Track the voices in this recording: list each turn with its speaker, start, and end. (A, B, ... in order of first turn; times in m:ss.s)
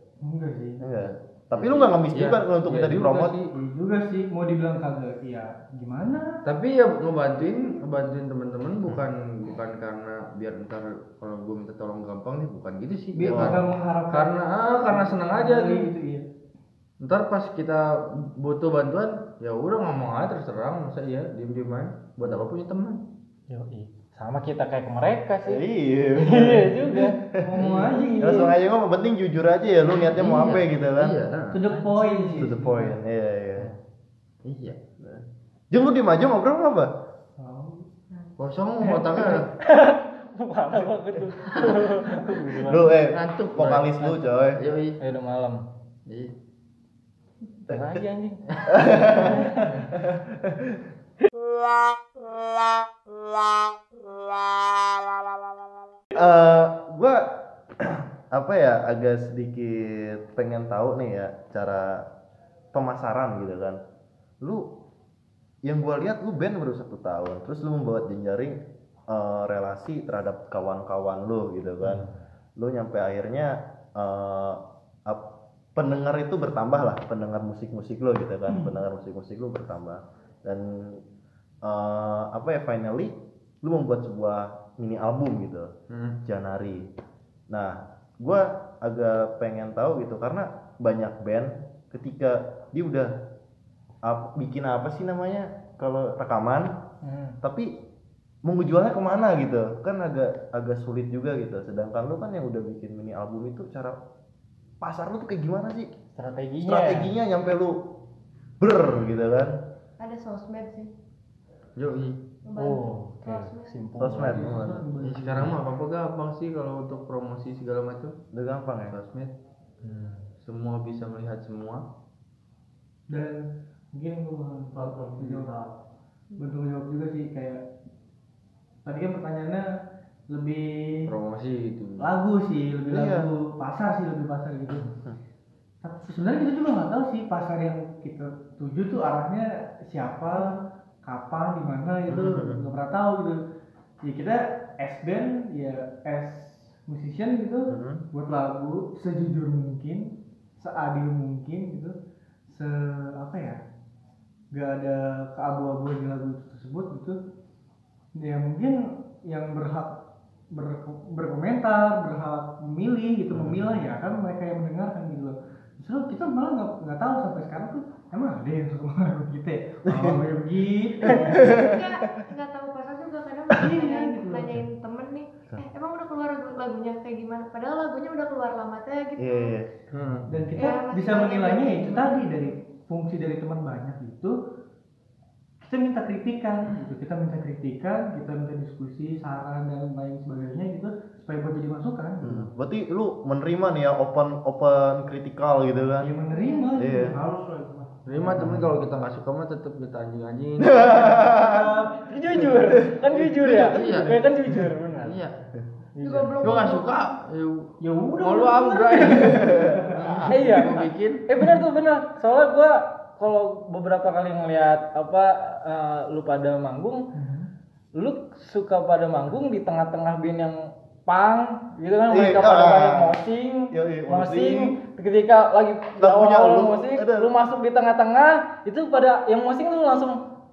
0:00.2-0:00.8 A
0:00.8-0:03.4 B
0:01.6-0:03.5 C
0:03.5-0:06.4 A
0:06.4-0:15.9 C
0:13.2-0:16.2 A
0:13.3-0:13.6 B
0:17.0-0:23.0 C
0:22.2-0:22.5 B
0:23.5-0:25.6 D
0:25.4-0:27.7 B
0:26.2-0:27.2 D
0:27.4-0:28.6 A
0:27.6-0:28.1 C
0:28.2-0:31.2 B
0:30.0-0:31.6 C
0:31.5-0:33.0 A
0:31.7-0:32.5 D
0:32.4-0:33.7 B
0:34.4-0:34.8 C
0:35.0-0:36.9 B
0:37.4-0:37.9 A
0:38.4-0:39.5 C
0:38.9-0:39.4 A
0:39.6-0:42.9 D
0:42.6-0:44.6 B
0:43.1-0:45.0 C
0:45.0-0:45.6 D
0:46.1-0:46.3 C
0:47.7-0:48.4 D
0:47.7-0:48.0 B
0:48.5-0:49.9 C
0:48.7-0:50.8 B
0:48.9-0:49.7 D
0:56.2-0:57.3 B
0:57.8-1:02.0 B
1:02.7-1:03.8 B
1:04.4-1:04.7 B
1:05.6-1:08.6 B
1:09.1-1:12.1 B
1:11.8-1:12.2 D
1:12.6-1:15.2 B
1:15.8-1:21.0 B
1:21.6-1:25.7 B
1:25.9-1:26.2 C
1:26.2-1:26.9 B
1:27.5-1:33.1 B
1:34.0-1:36.7 B
1:37.0-1:37.4 D
1:37.4-1:37.7 B
1:38.4-1:44.0 B
1:44.8-1:45.9 B
1:46.1-1:47.1 D
1:46.6-1:47.8 B
1:48.6-1:49.6 B
1:50.0-1:50.9 E
1:51.8-1:52.2 C
1:52.4-1:53.9 E
1:52.6-1:54.5 D
1:54.0-1:54.9 B
1:54.1-1:55.5 A
1:55.0-1:58.1 C
1:58.3-1:59.0 B
1:58.9-1:59.3 C
1:59.8-2:00.3 D
2:00.4-2:01.8 C
2:03.1-2:05.7 A
2:04.8-2:05.5 C
2:06.4-2:07.6 A
2:08.8-2:09.6 A
2:10.3-2:11.1 A
2:11.1-2:12.1 C
2:12.0-2:14.9 A
2:12.9-2:13.3 B
2:15.8-2:23.4 A
2:22.1-2:22.6 B
2:24.0-2:31.9 A
2:27.7-2:28.0 B
2:32.5-2:33.6 A
2:34.5-2:37.2 A
2:38.2-2:40.0 A
2:40.5-2:51.5 A
2:43.3-2:43.8 B
2:49.9-2:50.2 B
2:51.1-2:51.9 B
2:51.1-2:59.6 E
2:53.5-2:54.6 A
2:59.2-2:59.7 B
2:59.9-3:00.3 C
3:00.3-3:04.4 A
3:00.6-3:02.4 E
3:05.6-3:12.5 A
3:12.2-3:16.1 B
3:16.0-3:18.6 A
3:16.3-3:16.9 E
3:16.8-3:17.2 B
3:18.1-3:21.3 C
3:18.4-3:18.7 B
3:20.6-3:21.7 B
3:21.0-3:22.1 A
3:22.0-3:25.2 D
3:22.6-3:22.9 B
3:23.1-3:24.2 C
3:25.0-3:25.4 C
3:26.0-3:26.4 D
3:26.0-3:27.1 E
3:26.4-3:31.2 C
3:27.8-3:30.2 A
3:29.1-3:30.2 B
3:30.3-3:37.0 D
3:37.2-3:37.5 A
3:38.0-3:50.2 D
3:42.1-3:43.2 B
3:43.7-3:44.8 B
3:46.0-3:47.3 B